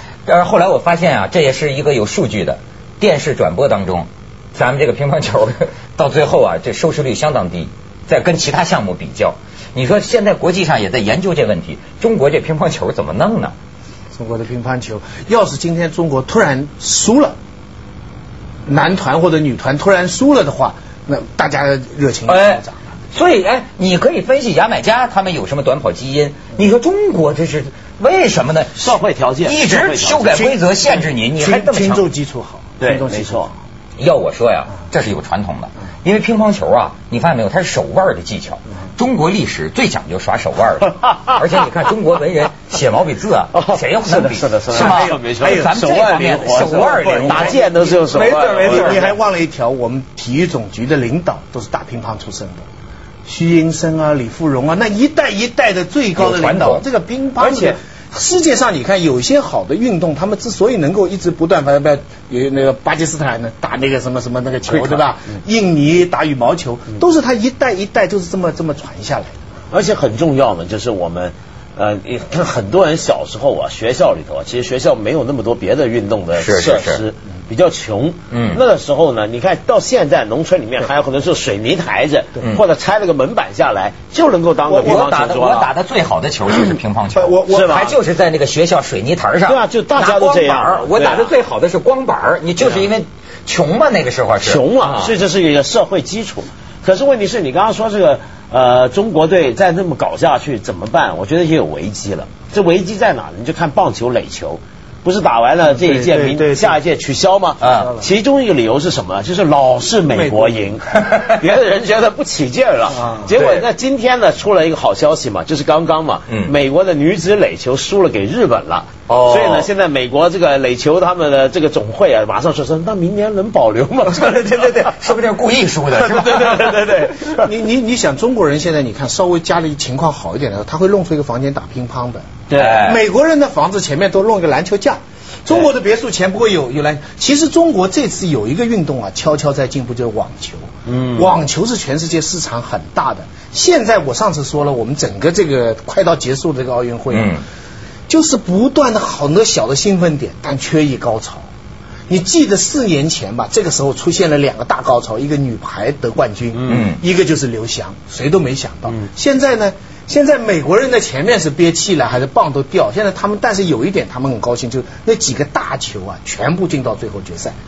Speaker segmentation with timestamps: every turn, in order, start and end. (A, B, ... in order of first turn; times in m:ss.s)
0:00.2-0:13.5 A
0:14.1-0:17.4 B
0:18.7-0:22.8 B
0:22.3-0:32.1 A
0:28.8-0:30.5 C
0:30.3-0:33.6 B
0:32.8-0:33.5 C
0:34.0-0:49.0 A
0:43.5-0:49.2 C
0:44.7-0:52.6 B
0:53.2-1:09.4 B
0:56.2-0:56.9 A
0:57.4-0:57.8 C
1:04.7-1:05.1 C
1:09.7-1:25.7 C
1:16.4-1:17.0 A
1:18.3-1:18.6 A
1:24.7-1:25.1 B
1:24.8-1:35.1 A
1:27.1-1:27.8 B
1:27.5-1:28.0 C
1:29.5-1:31.3 C
1:32.6-1:32.9 C
1:34.4-2:04.9 C
1:45.7-1:46.8 B
1:47.6-1:48.0 A
1:47.7-1:48.0 B
1:50.1-1:50.7 B
1:52.9-1:53.3 B
1:53.4-1:53.6 A
1:59.1-1:59.7 A
2:04.2-2:06.7 A
2:05.9-2:07.5 C
2:07.3-2:12.3 B
2:12.5-2:12.9 C
2:12.6-2:13.0 A
2:12.8-2:27.4 B
2:20.9-2:21.4 C
2:27.1-2:27.4 A
2:28.1-2:31.5 B
2:32.1-2:47.6 B
2:36.7-2:37.0 A